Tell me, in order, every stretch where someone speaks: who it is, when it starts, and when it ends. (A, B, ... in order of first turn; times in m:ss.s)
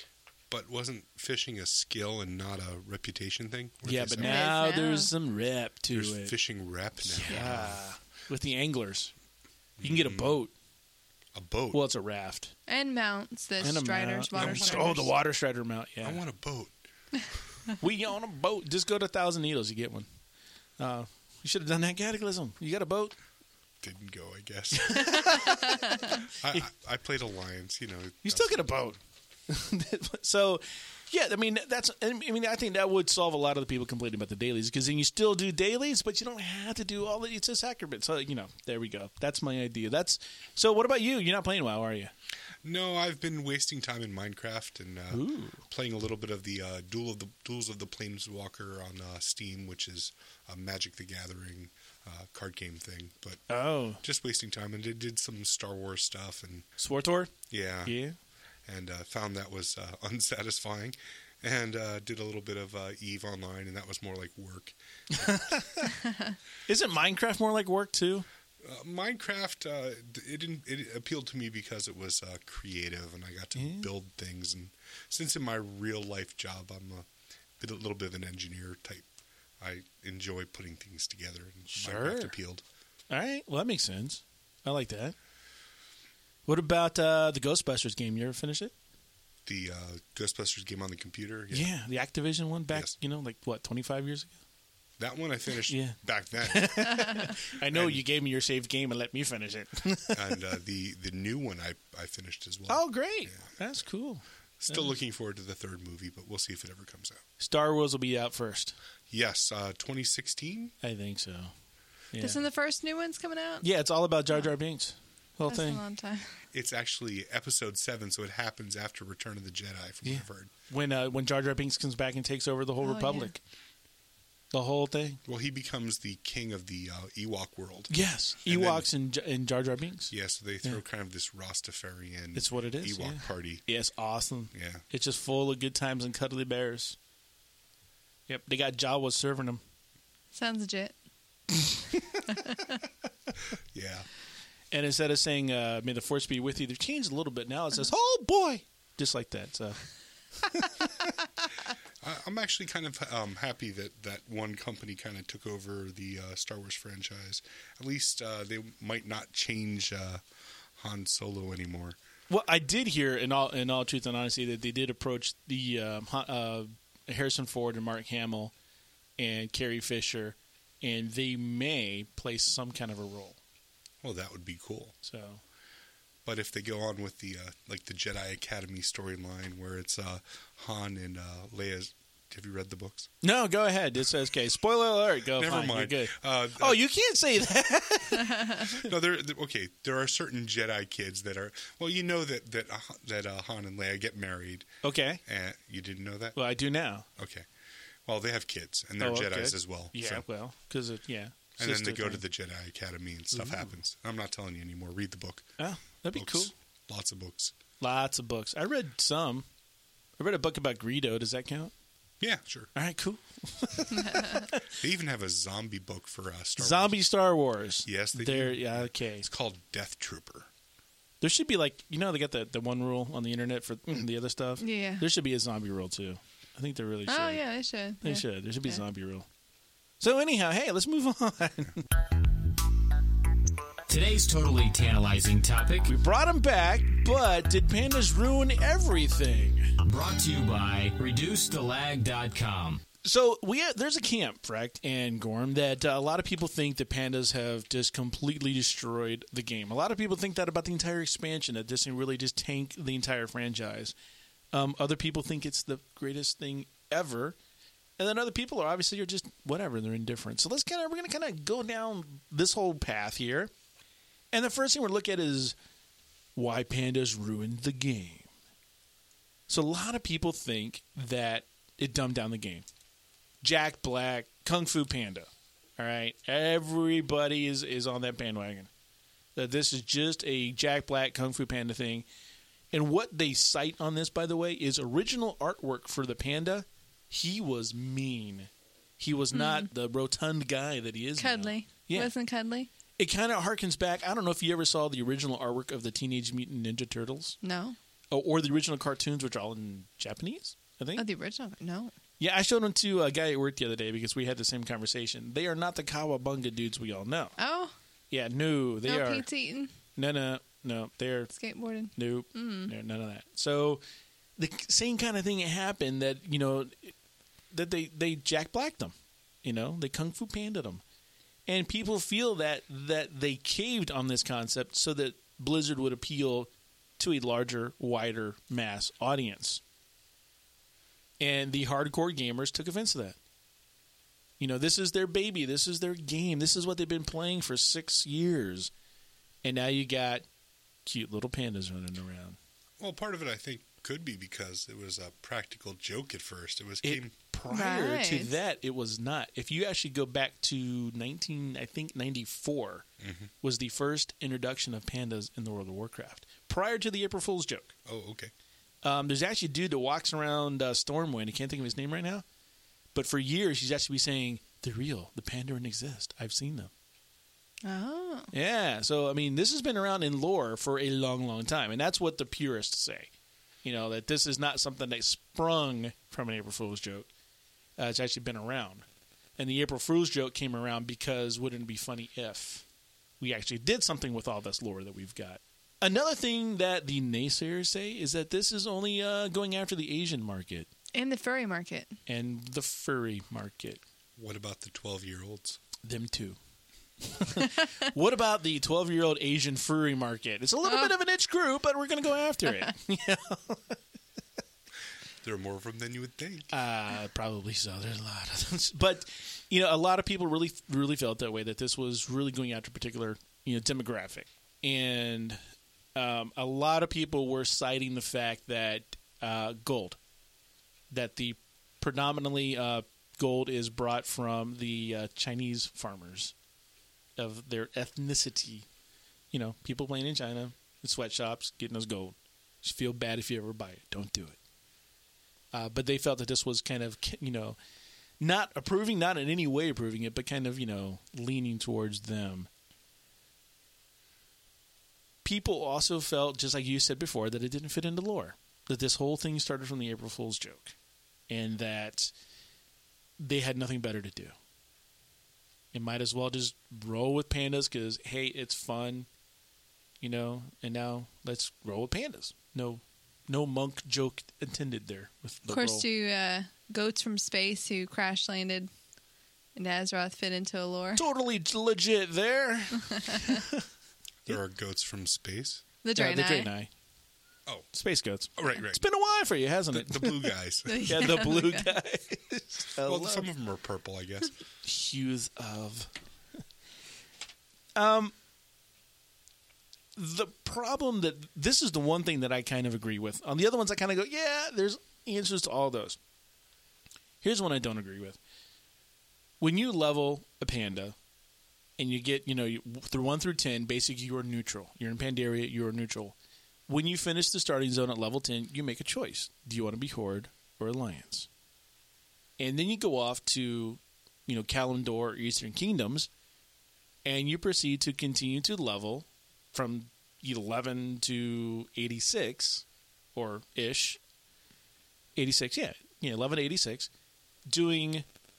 0:00.5-0:04.4 A
0:03.8-0:06.4 B
0:04.2-0:05.1 C
0:05.9-0:07.9 A
0:07.0-0:09.1 B
0:09.8-0:10.4 A
0:09.8-0:10.5 B
0:11.3-0:11.8 A
0:11.7-0:12.5 B
0:12.7-0:15.1 C
0:13.6-0:16.2 B
0:14.4-0:15.0 A
0:16.0-0:16.8 A
0:17.8-0:20.1 B
0:20.8-0:23.1 B
0:23.8-0:25.7 A
0:24.7-0:26.7 B
0:25.7-0:26.1 C
0:26.4-0:28.9 A
0:28.2-0:29.0 B
0:29.5-0:42.1 B
0:42.6-0:53.4 A
0:45.1-0:45.6 B
0:53.5-0:54.0 B
0:54.0-0:56.7 A
0:56.8-0:57.3 B
0:57.5-0:58.0 A
0:57.8-0:58.2 B
0:58.7-1:05.5 A
1:05.1-1:05.9 B
1:06.7-1:08.3 B
1:08.6-1:17.1 A
1:13.6-1:13.9 B
1:17.6-1:19.1 A
1:19.6-1:22.6 A
1:21.7-1:22.3 B
1:23.1-1:25.2 B
1:26.5-1:28.7 B
1:29.4-1:31.7 A
1:31.5-1:34.3 B
1:35.0-1:37.1 A
1:35.7-1:40.4 B
1:37.6-1:38.0 A
1:40.1-1:43.5 A
1:42.7-1:44.9 B
1:44.6-1:47.2 A
1:47.4-1:48.8 B
1:49.1-1:50.7 A
1:50.8-1:51.5 B
1:52.1-1:52.4 B
1:52.2-1:53.6 C
1:53.6-1:55.8 B
1:55.5-1:56.4 C
1:56.5-2:00.5 A
2:00.0-2:03.4 B
2:02.8-2:03.3 C
2:04.5-2:05.2 B
2:05.3-2:07.9 A
2:07.9-2:10.8 B
2:08.4-2:08.9 A
2:10.1-2:13.6 A
2:12.4-2:17.0 B
2:14.5-2:14.8 A
2:18.3-2:19.6 B
2:20.3-2:21.0 C
2:22.3-2:22.7 C
2:23.7-2:24.1 A
2:24.7-2:29.8 B
2:30.4-2:31.1 B
2:32.0-2:40.2 A
2:40.8-2:42.0 A
2:42.3-2:48.5 B
2:49.2-2:53.4 B
2:54.0-2:54.9 A
2:55.0-2:55.4 B
2:56.2-3:03.1 A
3:03.2-3:08.9 B
3:05.4-3:06.8 A
3:08.6-3:14.7 A
3:14.8-3:15.2 B
3:15.3-3:16.4 A
3:16.4-3:17.0 B
3:17.2-3:17.5 A
3:18.1-3:20.2 A
3:19.0-3:22.2 B
3:21.6-3:25.6 A
3:23.3-3:23.8 B
3:25.6-3:26.5 B
3:26.1-3:27.5 A
3:27.8-3:29.4 B
3:30.2-3:31.7 B
3:32.2-3:32.7 A
3:32.8-3:34.7 B
3:33.9-3:34.4 C
3:34.7-3:37.0 A
3:36.6-3:39.3 B
3:37.8-3:40.5 A
3:41.2-3:47.4 B
3:44.6-3:45.0 C
3:47.1-3:48.8 C
3:48.0-3:49.3 B
3:50.0-3:51.9 B
3:53.9-3:55.9 D
3:55.9-3:59.7 B
3:59.8-4:02.8 D
4:03.0-4:13.9 B
4:14.5-4:17.4 B
4:18.0-4:23.5 B
4:24.3-4:25.6 B
4:26.4-4:28.3 B
4:29.5-4:32.6 B
4:33.4-4:38.7 B
4:39.4-4:42.1 B
4:42.7-4:52.1 B
4:49.3-4:49.7 C
4:51.2-4:52.7 C
4:53.0-4:57.4 B
4:57.4-4:57.8 C
4:58.1-5:01.0 B
5:01.0-5:01.9 C
5:02.2-5:07.4 B
5:07.4-5:07.7 C
5:08.1-5:09.3 B
5:08.9-5:09.7 C
5:10.0-5:11.3 B
5:11.3-5:12.7 C
5:12.0-5:13.8 B
5:14.4-5:16.9 B
5:17.5-5:20.8 B
5:21.5-5:29.6 B
5:31.2-5:33.2 B
5:34.4-5:38.7 B
5:39.4-5:40.2 B
5:40.8-5:42.4 B
5:42.8-5:47.1 A
5:46.8-5:52.9 B
5:47.5-5:48.3 C
5:53.0-5:53.3 A
5:53.4-5:57.7 B
5:57.8-5:58.3 A
5:58.8-6:02.2 B
6:03.0-6:06.7 B
6:07.6-6:08.3 C
6:08.3-6:13.1 B
6:13.6-6:17.1 B
6:17.8-6:18.8 B
6:19.4-6:22.6 B
6:23.2-6:30.7 B
6:30.9-6:32.0 C
6:32.1-6:33.8 B
6:34.2-6:35.6 A
6:35.8-6:36.4 B
6:37.0-6:43.8 B
6:45.2-6:46.5 A
6:46.5-6:55.4 B
6:56.0-7:00.0 B
7:00.9-7:06.3 B
7:07.2-7:08.6 B
7:09.3-7:14.4 B
7:15.5-7:17.6 B
7:18.2-7:22.5 B
7:25.2-7:30.8 B
7:31.3-7:32.1 B
7:33.2-7:34.3 B
7:35.7-7:39.1 B
7:40.0-7:45.8 B
7:45.5-7:48.7 C
7:49.6-7:51.0 C
7:51.0-7:53.6 B
7:53.0-7:53.3 C
7:54.3-7:55.6 A
7:55.8-7:56.5 C
7:56.0-7:56.7 B
7:57.7-8:03.3 B
7:58.4-7:58.8 A
7:59.7-8:01.1 A
8:00.7-8:01.7 C
8:02.8-8:04.3 A
8:04.6-8:05.9 B
8:07.8-8:08.1 B
8:10.0-8:16.0 B
8:17.2-8:18.2 B
8:19.4-8:21.0 B
8:21.8-8:26.1 B
8:26.7-8:31.3 B
8:32.4-8:36.1 B
8:37.0-8:42.6 B
8:43.2-8:44.0 B
8:45.2-8:46.9 B
8:47.5-8:48.0 B